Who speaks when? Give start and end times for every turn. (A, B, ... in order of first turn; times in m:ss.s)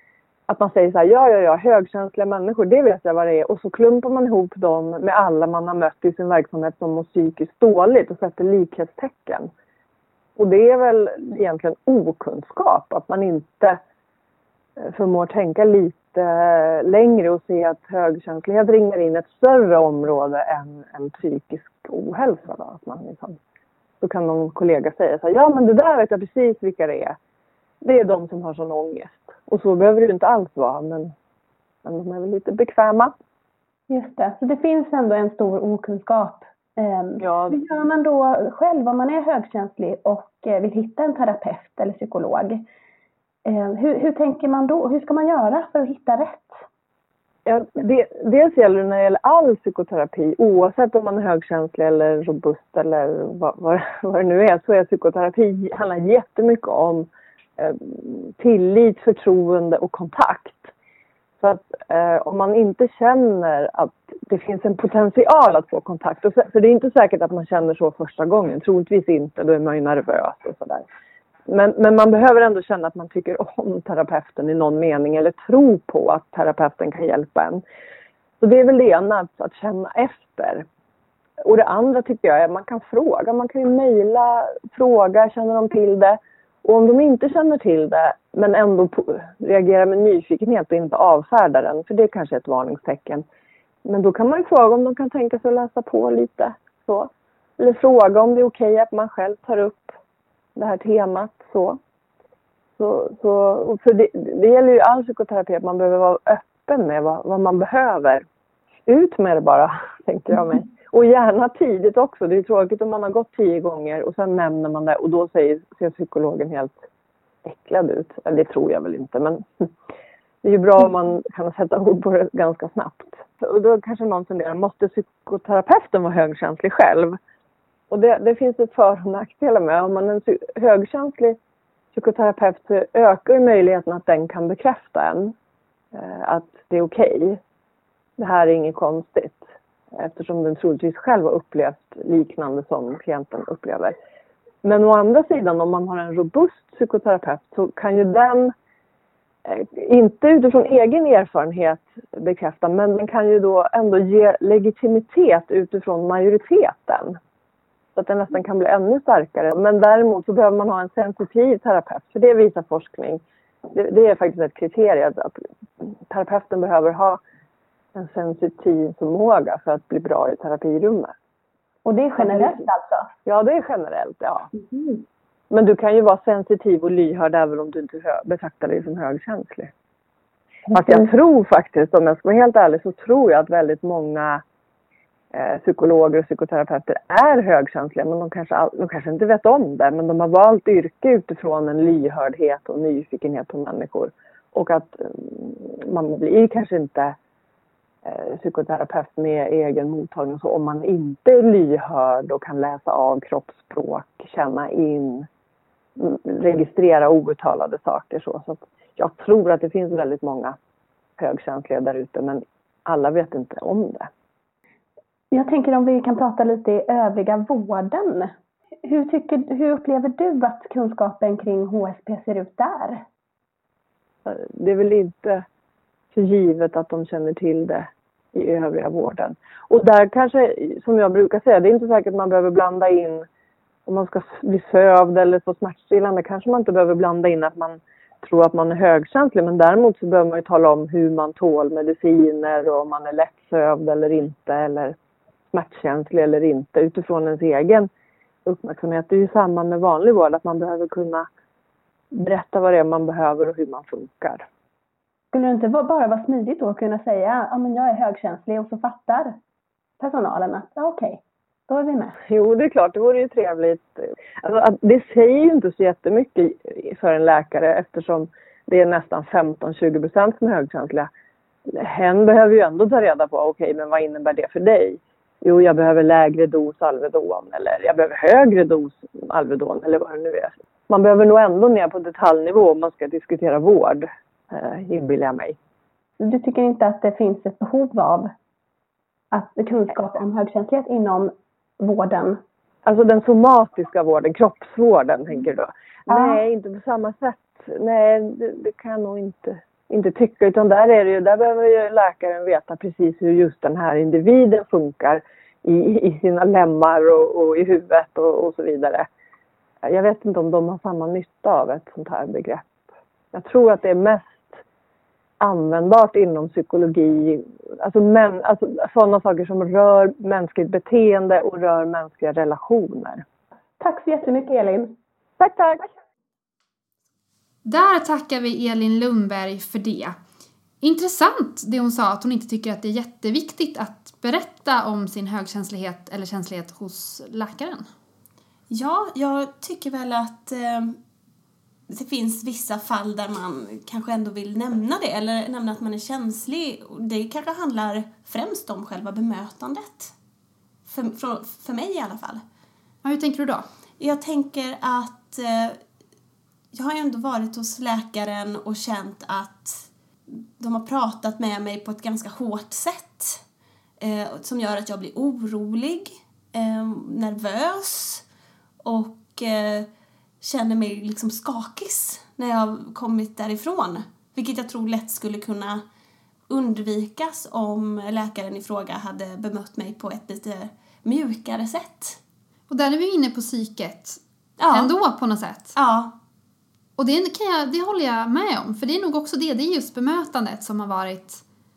0:00.5-0:09.5 A
0:10.4-0:13.8 A
0:14.8-0:23.4 A
0:24.0-0:27.2 A
0:27.8-0:31.1 A
0:31.8-0:33.1 A
0:33.9-0:42.6 B
0:37.2-0:37.6 A
0:43.4-0:46.6 B
0:47.4-1:00.7 A
1:01.4-1:10.8 A
1:11.5-1:17.6 A
1:18.4-1:20.6 A
1:21.4-1:33.2 A
1:33.8-1:40.0 A
1:40.6-1:41.8 A
1:42.8-1:48.2 A
1:48.8-1:56.7 A
1:57.4-1:59.7 A
2:00.4-2:07.2 A
2:07.9-2:11.4 A
2:11.9-2:15.3 A
2:15.9-2:17.4 A
2:18.2-2:23.9 A
2:24.6-2:28.5 A
2:29.4-2:37.2 A
2:38.0-2:47.2 A
2:47.9-2:51.1 A
2:51.8-2:53.1 B
2:52.2-2:52.6 A
2:53.2-2:54.5 A
2:55.5-2:59.7 A
3:00.7-3:04.4 A
3:05.3-3:17.2 A
3:18.0-3:25.3 A
3:26.0-3:30.6 A
3:31.2-3:34.1 A
3:35.3-3:38.3 B
3:38.8-3:43.0 B
3:44.2-3:45.4 A
3:46.1-3:53.2 A
3:53.8-4:04.9 A
4:05.5-4:07.9 A
4:08.4-4:11.3 A
4:12.1-4:14.4 A
4:15.3-4:19.4 B
4:20.0-4:22.2 B
4:22.3-4:31.1 A
4:31.7-4:45.6 A
4:46.2-4:48.3 B
4:49.3-4:52.4 B
4:52.8-5:09.1 A
4:56.1-4:56.4 B
5:09.8-5:14.6 A
5:15.4-5:23.2 A
5:23.8-5:24.9 B
5:25.4-5:25.9 A
5:27.6-5:30.2 C
5:30.8-5:37.9 C
5:38.7-5:41.0 D
5:41.9-5:50.1 D
5:50.9-5:52.4 D
5:53.0-5:53.6 C
5:54.0-5:55.8 D
5:56.7-6:03.4 D
6:04.0-6:08.2 D
6:08.8-6:09.9 D
6:10.4-6:15.8 D
6:16.5-6:22.2 D
6:22.7-6:24.2 C
6:24.6-6:24.9 D
6:24.7-6:25.7 C
6:25.8-6:26.1 D
6:27.0-6:31.4 C